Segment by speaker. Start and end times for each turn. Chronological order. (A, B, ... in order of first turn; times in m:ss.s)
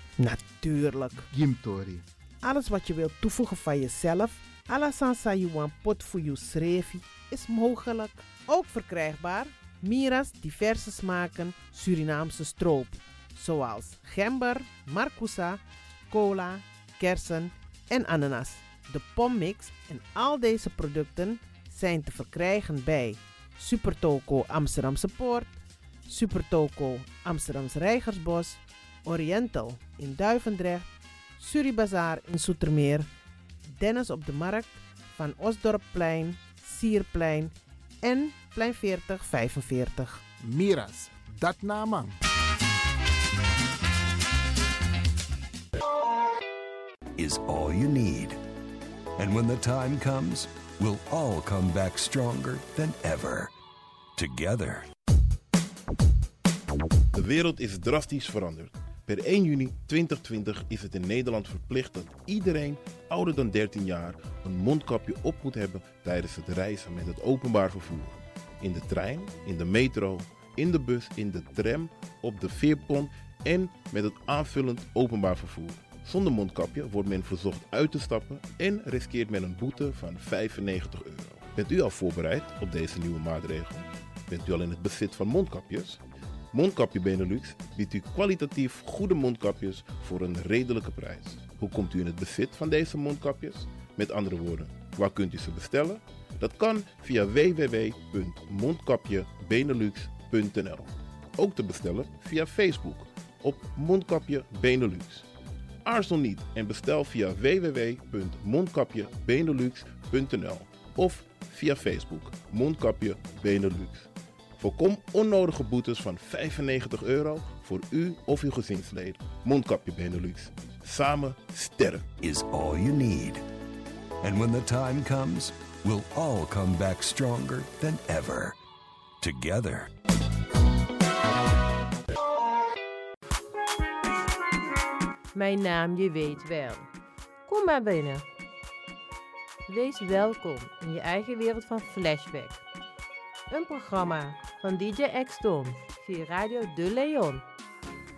0:00.2-0:01.3 A
0:01.3-0:02.0 B
0:02.4-0:25.6 A
0:26.1-0:33.1 A
0:33.7-0:40.2 A
0:40.4-0:42.2 B
0:47.2-0:48.4 C
0:49.2-0:53.5 C
0:54.2-0:54.9 C
0:57.1-1:26.0 D
1:26.5-1:45.3 D
1:45.8-2:02.2 D
2:02.1-2:03.4 C
2:04.2-2:08.6 C
2:09.2-2:09.9 C
2:15.3-2:16.9 E
2:17.5-2:18.2 E
2:19.7-2:22.6 E
2:23.5-2:27.4 E